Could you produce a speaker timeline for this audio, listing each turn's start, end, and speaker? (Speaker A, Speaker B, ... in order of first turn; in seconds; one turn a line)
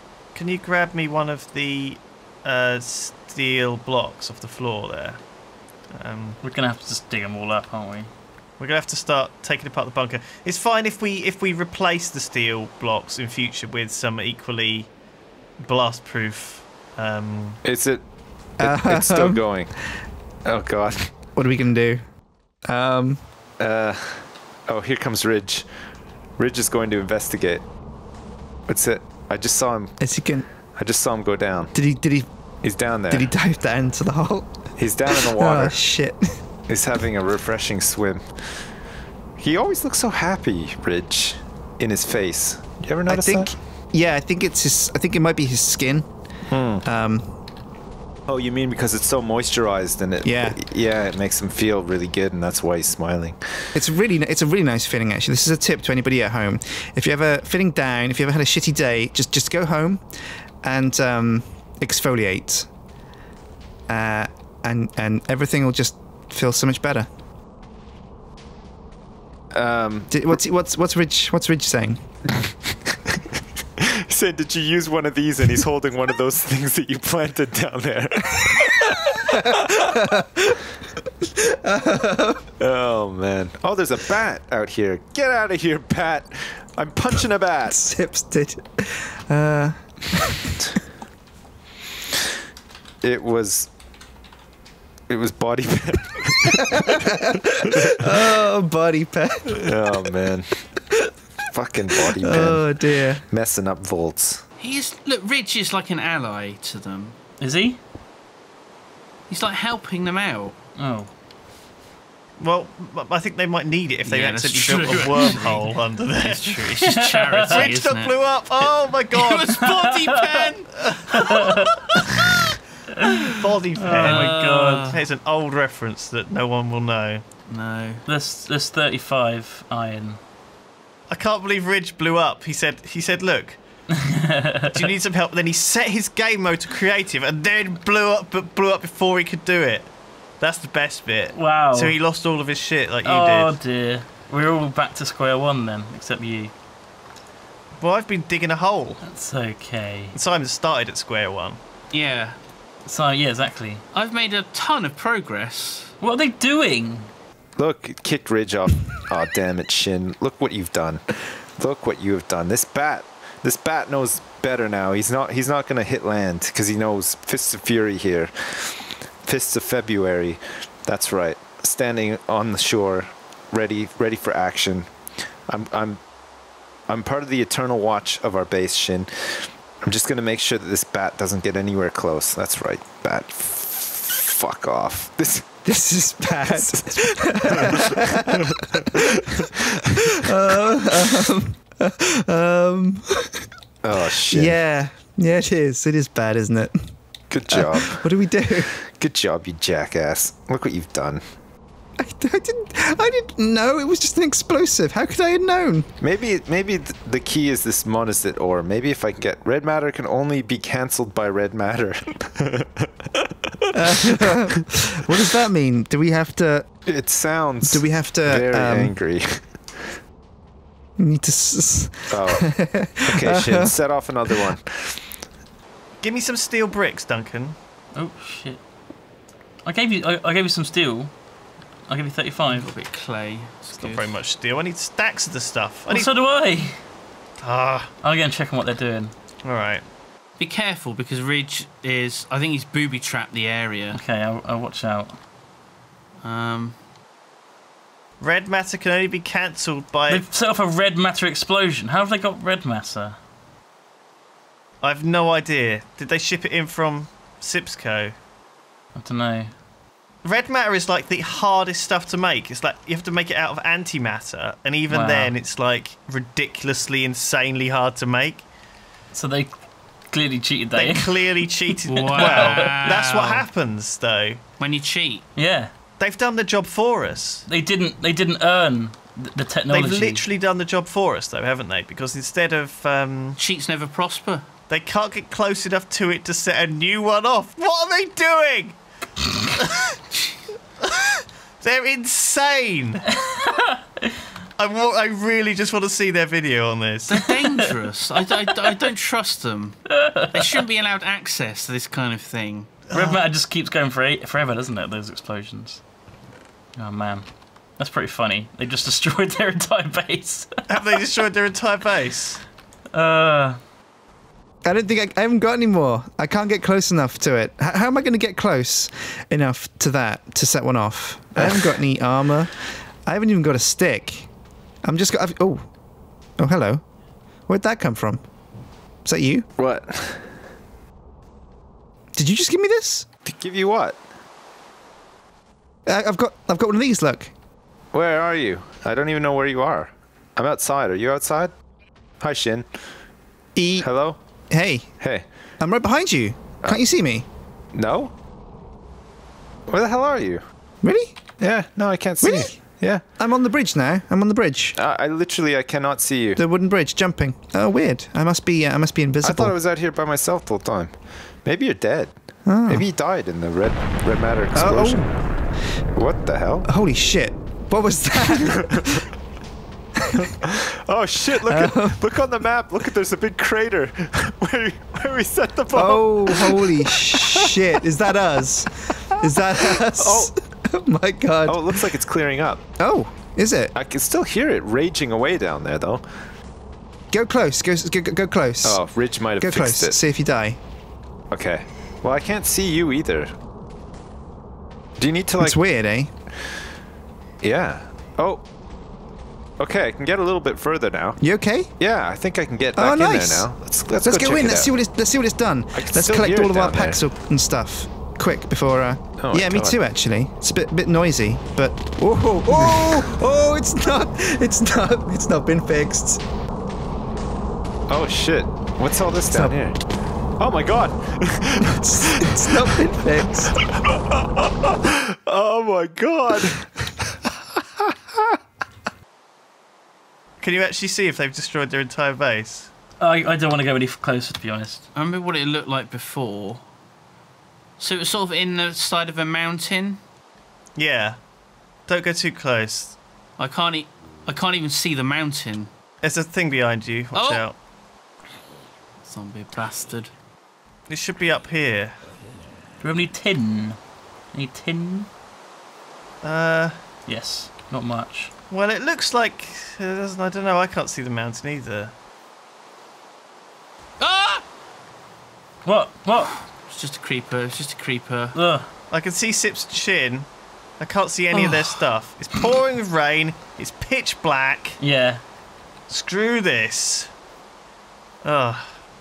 Speaker A: 0.3-5.2
Speaker A: 5.9-6.4
Speaker B: 6.4-8.1
Speaker A: 8.6-14.9
Speaker A: 15.6-17.6
Speaker C: 17.6-18.1
Speaker D: 18.6-19.4
Speaker C: 18.6-19.8
Speaker C: 20.4-21.1
Speaker D: 21.3-22.0
Speaker D: 22.7-23.2
Speaker C: 23.6-25.7
Speaker C: 26.4-27.7
Speaker C: 28.7-30.0
Speaker D: 30.0-30.5
Speaker C: 30.7-31.7
Speaker D: 31.7-32.3
Speaker C: 32.6-33.3
Speaker D: 33.1-36.4
Speaker C: 34.8-35.8
Speaker C: 36.7-38.5
Speaker C: 39.4-43.6
Speaker D: 43.1-46.1
Speaker C: 46.5-46.9
Speaker D: 46.8-47.4
Speaker C: 48.3-53.7
Speaker D: 50.2-50.6
Speaker D: 53.7-62.7
Speaker D: 63.9-67.1
Speaker C: 69.5-70.2
Speaker D: 70.1-72.1
Speaker C: 72.5-73.2
Speaker C: 73.8-79.9
Speaker D: 79.2-82.5
Speaker C: 82.6-87.8
Speaker D: 87.7-90.5
Speaker C: 93.0-93.7
Speaker C: 95.1-97.1
Speaker D: 96.5-100.1
Speaker C: 97.6-98.3
Speaker C: 99.5-100.6
Speaker C: 101.5-104.4
Speaker D: 102.1-103.2
Speaker E: 104.6-107.2
Speaker B: 107.4-107.8
Speaker E: 109.3-110.6
Speaker B: 110.8-111.1
Speaker A: 112.4-116.6
Speaker E: 114.0-118.4
Speaker B: 115.0-115.6
Speaker B: 116.9-117.7
Speaker A: 117.5-119.6
Speaker E: 119.1-122.1
Speaker B: 119.6-120.1
Speaker A: 120.8-121.2
Speaker B: 121.2-121.6
Speaker A: 123.3-127.2
Speaker B: 123.8-124.9
Speaker E: 123.8-125.0
Speaker E: 127.5-128.1
Speaker B: 128.1-130.2
Speaker A: 131.1-133.6
Speaker B: 134.0-134.9
Speaker A: 134.7-143.6
Speaker B: 141.3-142.0
Speaker B: 143.1-146.5
Speaker A: 147.8-149.0
Speaker B: 149.0-150.2
Speaker A: 150.1-151.6
Speaker E: 151.9-152.4
Speaker B: 152.9-153.8
Speaker E: 153.9-155.9
Speaker B: 156.0-157.1
Speaker C: 157.6-174.9
Speaker C: 175.5-176.0
Speaker C: 176.9-185.6
Speaker D: 185.7-193.5
Speaker C: 186.4-190.3
Speaker C: 193.8-194.6
Speaker D: 194.1-196.8
Speaker C: 197.3-201.2
Speaker D: 197.5-198.7
Speaker D: 202.0-205.9
Speaker C: 206.0-214.3
Speaker D: 213.7-216.7
Speaker C: 216.9-219.9
Speaker D: 217.7-218.9
Speaker D: 221.0-223.8
Speaker C: 222.1-225.0
Speaker D: 224.3-224.6
Speaker A: 226.0-227.6
Speaker B: 227.9-228.6
Speaker B: 229.7-231.1
Speaker B: 231.9-232.7
Speaker E: 232.5-234.1
Speaker A: 233.8-236.1
Speaker B: 235.9-236.8
Speaker A: 237.4-237.9
Speaker B: 238.0-239.1
Speaker A: 239.4-239.8
Speaker E: 240.4-244.0
Speaker B: 243.9-245.2
Speaker E: 246.2-246.8
Speaker A: 248.2-250.3
Speaker B: 250.1-253.2
Speaker A: 254.8-258.2
Speaker B: 258.9-259.5
Speaker A: 260.2-268.5
Speaker B: 264.9-265.3
Speaker B: 269.1-269.5
Speaker B: 270.1-273.0
Speaker A: 270.8-274.4
Speaker E: 271.9-273.5
Speaker E: 274.6-275.3
Speaker B: 275.4-275.7
Speaker A: 276.0-277.5
Speaker B: 277.5-280.2
Speaker A: 279.7-283.4
Speaker E: 283.4-284.5
Speaker A: 284.7-288.8
Speaker A: 289.6-290.0
Speaker A: 290.8-293.1
Speaker B: 293.3-294.1
Speaker A: 294.6-297.2
Speaker E: 297.1-302.9
Speaker B: 299.9-300.6
Speaker A: 302.9-303.2
Speaker B: 302.9-305.8
Speaker B: 306.8-310.9
Speaker A: 310.7-312.4
Speaker B: 312.9-313.6
Speaker D: 314.6-324.3
Speaker C: 321.4-321.8
Speaker D: 324.8-325.6
Speaker D: 326.4-326.8
Speaker D: 327.5-328.2
Speaker D: 329.1-329.5
Speaker C: 329.6-330.3
Speaker D: 332.1-333.1
Speaker C: 333.2-334.0
Speaker D: 335.9-337.3
Speaker C: 337.9-341.5
Speaker C: 342.2-342.7
Speaker D: 343.6-343.9
Speaker C: 343.8-344.2
Speaker D: 344.5-344.9
Speaker D: 345.6-347.3
Speaker C: 347.7-348.1
Speaker C: 349.7-350.4
Speaker D: 350.8-351.2
Speaker C: 351.4-353.0
Speaker D: 352.2-352.5
Speaker D: 353.2-354.8
Speaker C: 354.8-356.4
Speaker D: 356.4-359.5
Speaker C: 359.2-362.1
Speaker D: 362.5-362.9
Speaker C: 362.7-365.1
Speaker D: 364.5-365.1
Speaker C: 365.9-366.7
Speaker D: 366.7-369.1
Speaker C: 368.3-369.1
Speaker D: 370.1-370.3
Speaker C: 370.2-377.8
Speaker D: 371.4-372.0
Speaker D: 375.7-381.9
Speaker C: 378.9-380.3
Speaker C: 381.5-382.6
Speaker D: 382.8-383.7
Speaker C: 383.7-386.0
Speaker D: 387.1-388.8
Speaker C: 388.6-390.0
Speaker D: 389.4-390.6
Speaker C: 391.3-393.3
Speaker C: 395.0-395.6
Speaker D: 395.4-396.1
Speaker C: 397.4-398.4
Speaker C: 399.6-401.2
Speaker D: 401.2-401.7
Speaker C: 401.8-404.7
Speaker D: 402.8-416.2
Speaker C: 405.7-407.0
Speaker C: 409.2-409.8
Speaker C: 412.6-413.1
Speaker C: 417.9-419.9
Speaker D: 419.3-419.6
Speaker C: 420.4-422.8
Speaker D: 421.6-423.6
Speaker C: 423.6-426.8
Speaker A: 430.4-432.7
Speaker B: 433.0-434.9
Speaker E: 434.9-436.6
Speaker E: 437.8-440.0
Speaker A: 440.8-441.2
Speaker A: 441.9-443.0
Speaker E: 443.4-445.7
Speaker A: 446.0-447.6
Speaker E: 447.1-447.5
Speaker E: 449.1-450.1
Speaker A: 450.9-452.0
Speaker B: 452.8-453.8
Speaker B: 454.3-455.1
Speaker A: 456.2-456.8
Speaker B: 457.1-458.3
Speaker A: 458.5-461.9
Speaker E: 464.0-464.4
Speaker B: 465.6-466.4
Speaker E: 466.6-468.4
Speaker B: 468.4-468.7
Speaker A: 468.9-474.8
Speaker E: 471.3-471.8
Speaker B: 474.8-475.2
Speaker A: 475.9-477.1
Speaker A: 478.2-478.8